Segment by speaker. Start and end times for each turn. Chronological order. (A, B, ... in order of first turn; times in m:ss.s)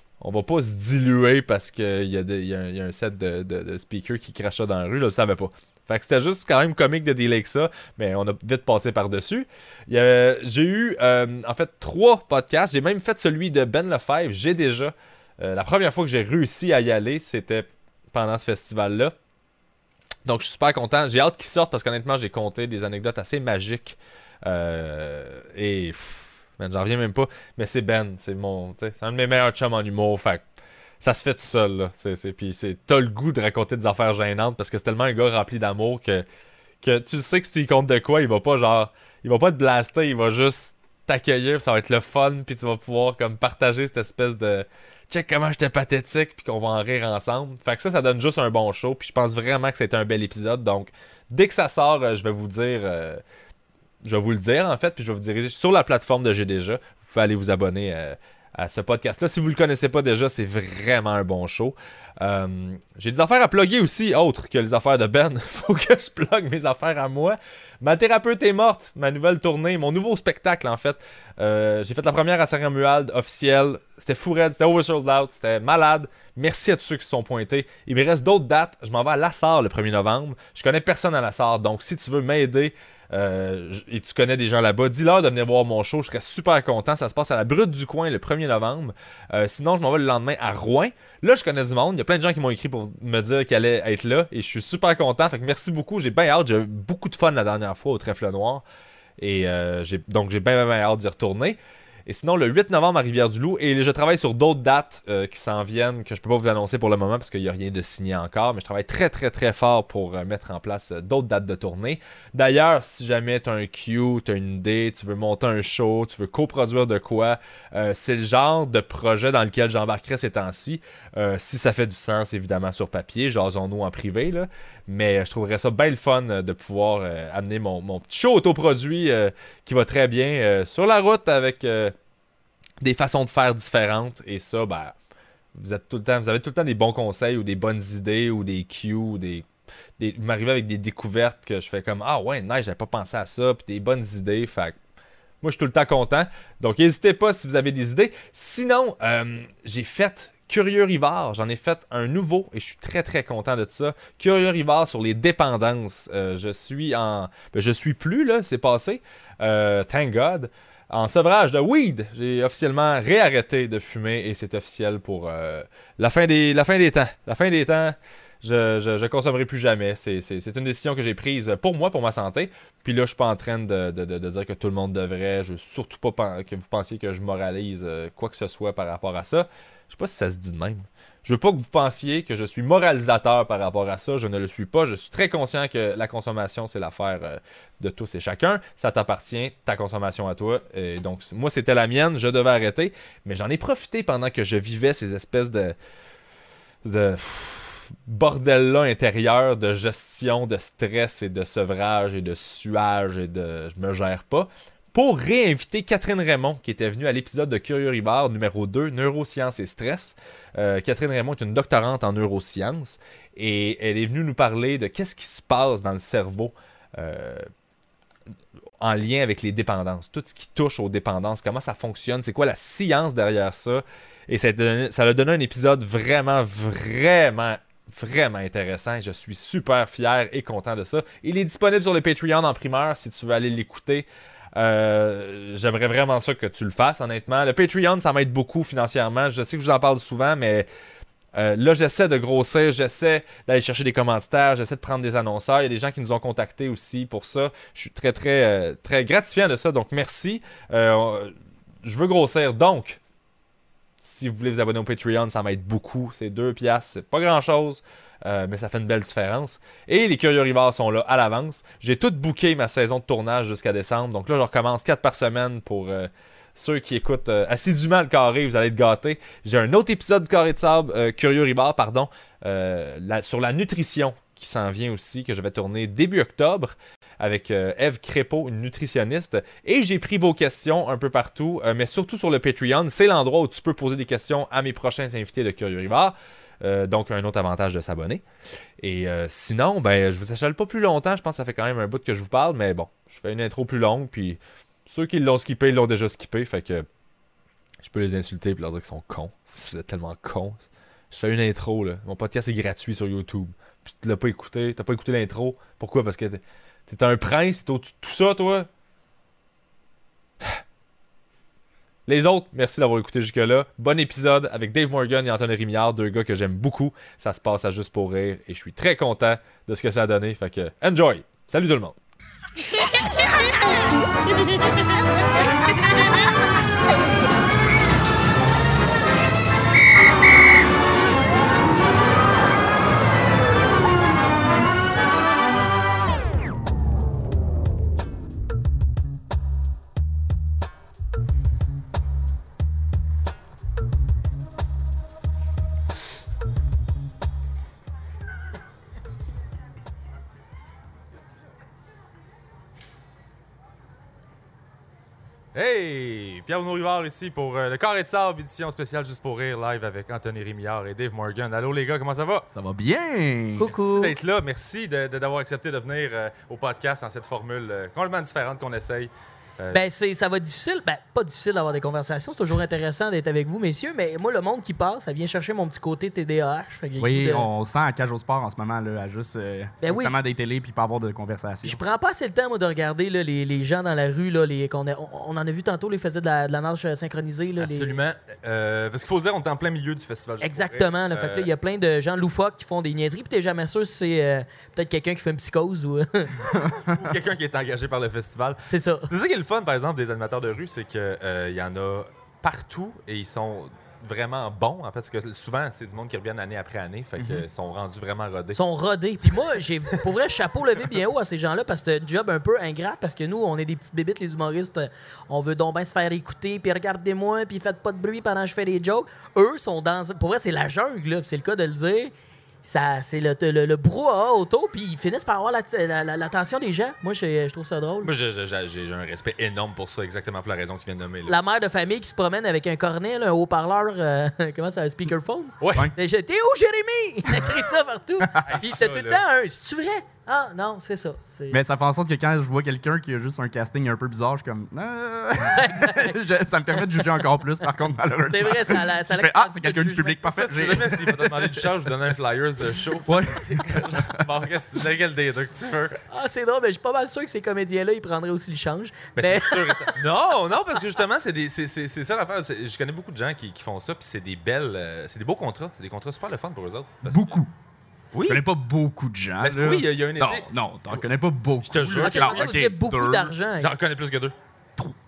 0:00.2-0:19.1 A
0:20.2-0:30.4 A
0:31.0-0:36.2 A
0:36.8-0:53.2 A
0:54.0-1:38.6 A
1:39.2-2:11.9 A
2:12.8-2:14.9 A
2:15.5-2:19.5 A
2:20.0-2:24.8 A
2:25.4-3:15.7 A
3:16.8-3:37.5 A
3:38.8-4:00.7 A
4:01.3-4:11.3 A
4:11.8-4:13.0 A
4:14.0-4:48.2 A
4:48.8-4:56.8 A
4:57.8-5:08.7 A
5:12.1-5:22.0 A
5:55.5-6:02.5 A
6:02.5-6:03.7 B
6:03.6-6:04.2 C
6:03.6-6:09.8 A
6:09.7-6:17.5 C
6:17.0-6:21.8 B
6:19.8-6:20.1 C
6:21.6-6:28.0 C
6:27.6-6:31.5 A
6:30.4-6:36.6 C
6:36.5-6:36.9 B
6:36.9-6:48.6 A
6:38.7-6:39.1 C
6:47.2-6:47.4 B
6:48.5-7:02.1 C
7:02.6-7:08.1 C
7:08.0-7:11.4 A
7:11.2-7:21.6 C
7:15.6-7:15.9 A
7:18.4-7:19.2 A
7:21.5-7:31.7 B
7:25.4-7:26.2 C
7:28.3-7:30.3 C
7:30.3-7:36.0 A
7:33.1-7:34.3 B
7:36.1-7:40.0 C
7:39.2-7:47.4 A
7:47.0-7:47.5 B
7:48.1-7:48.4 A
7:48.2-7:53.3 B
7:49.4-7:51.0 A
7:51.6-7:52.5 A
7:52.0-7:53.7 C
7:53.6-7:54.3 A